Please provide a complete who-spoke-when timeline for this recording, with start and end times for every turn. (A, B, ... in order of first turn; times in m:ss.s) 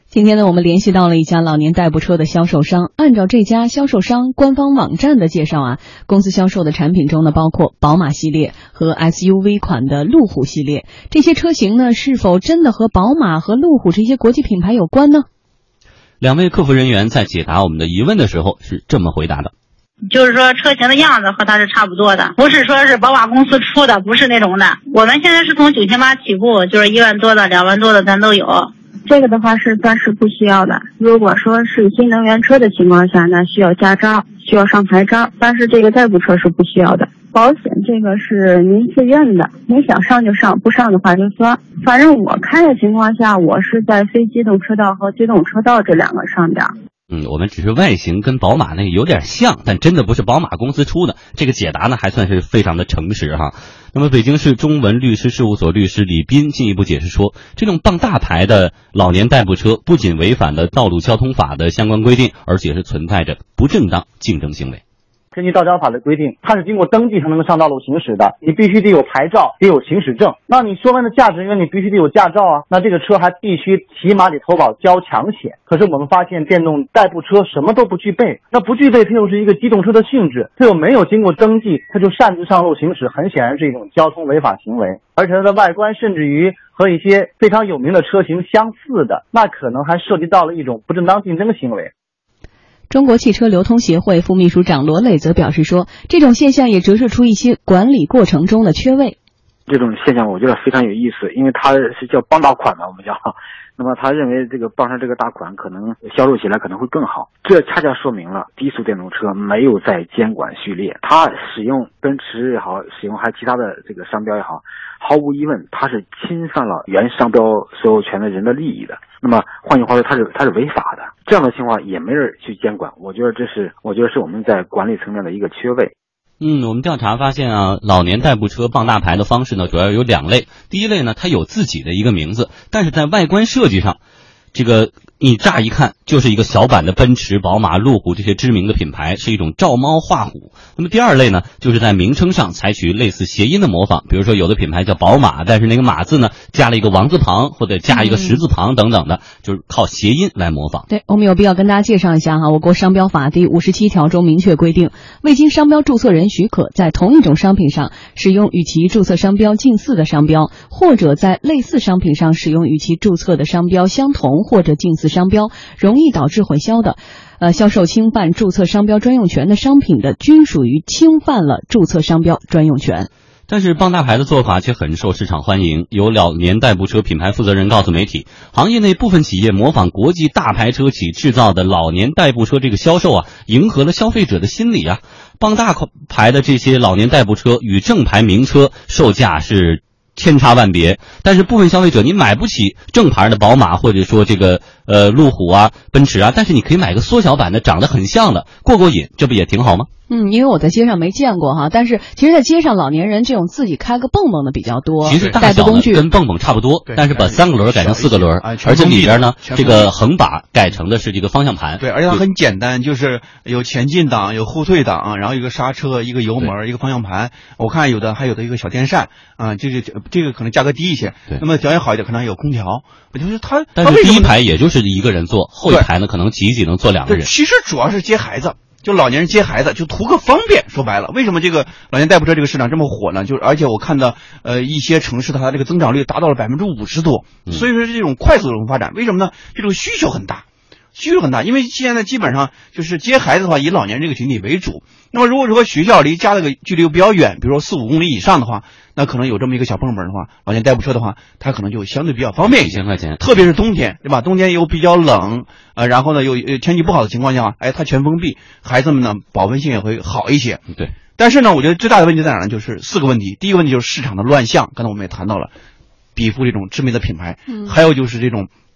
0:00.1-0:15.3 A
0:16.2-0:19.5 B
0:20.1-0:28.7 C
0:29.1-0:46.7 D
0:47.1-1:04.8 B
1:05.3-1:31.9 E
1:32.9-1:39.2 A
1:39.7-2:05.9 F
2:06.4-2:14.0 B
2:14.5-2:30.8 B
2:27.9-2:28.4 A
2:30.9-2:53.1 A
2:53.5-3:19.9 B
3:20.1-3:26.0 A
3:25.0-3:32.2 B
3:26.9-3:29.9 G
3:31.8-3:44.3 G
3:43.8-3:47.3 B
3:47.1-4:00.4 G
4:01.0-4:20.6 G
4:12.4-4:13.3 B
4:21.2-4:25.5 G
4:26.2-4:28.5 G